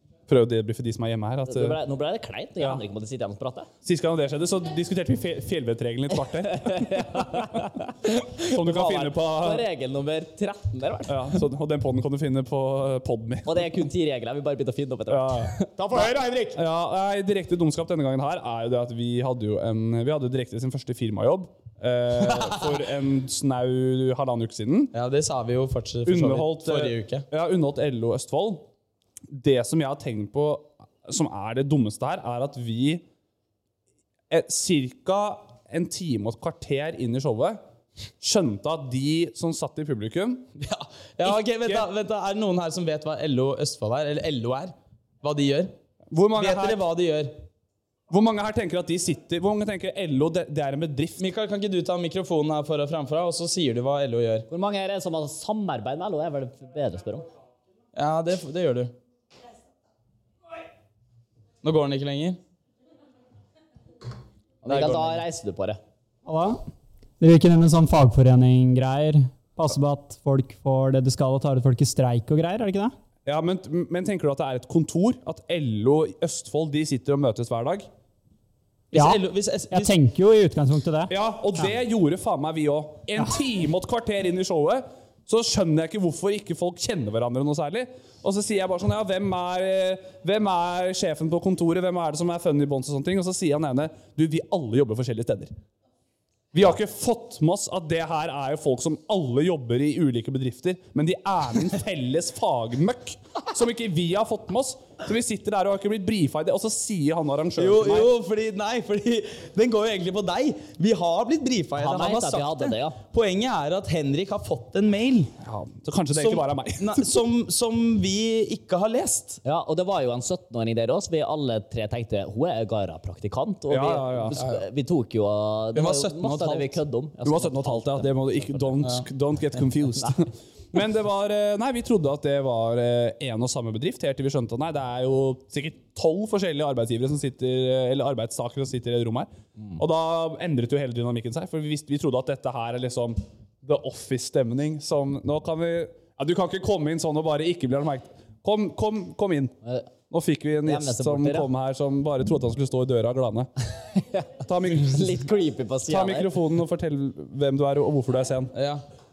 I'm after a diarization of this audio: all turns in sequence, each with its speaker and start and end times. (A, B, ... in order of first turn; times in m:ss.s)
0:00.3-0:01.8 A
0:01.5-0:03.7 B
0:03.8-0:07.5 A
0:06.5-0:11.3 B
0:08.4-0:09.7 A
0:11.1-0:13.6 A
0:13.4-0:15.7 B
0:15.1-0:24.9 A
0:15.8-0:16.6 C
0:22.3-0:22.8 C
0:24.9-0:27.3 C
0:26.1-0:28.7 A
0:29.3-0:33.0 A
0:34.3-0:37.6 A
0:38.2-0:40.5 A
0:40.6-0:45.7 C
0:41.2-0:41.9 A
0:46.1-0:46.8 A
0:46.3-0:47.4 C
0:48.1-0:51.3 A
0:51.2-0:54.5 C
0:54.5-0:57.3 B
0:57.9-0:58.9 C
1:01.6-1:02.4 C
1:04.6-1:05.2 C
1:04.6-1:05.8 B
1:06.2-1:06.6 D
1:07.2-1:13.0 D
1:13.2-1:17.9 A
1:18.9-1:20.0 C
1:18.9-1:21.7 D
1:21.1-1:35.5 A
1:36.5-1:48.1 A
1:47.6-1:55.3 C
1:51.8-1:53.0 B
1:55.4-1:57.1 A
1:56.1-1:59.4 C
1:59.4-2:08.9 B
2:03.7-2:04.4 A
2:04.4-2:04.6 C
2:05.8-2:06.8 C
2:07.2-2:29.6 A
2:30.1-2:33.5 A
2:30.6-2:31.5 B
2:34.0-2:36.3 B
2:34.4-2:35.2 A
2:35.9-2:38.5 A
2:38.5-2:38.8 C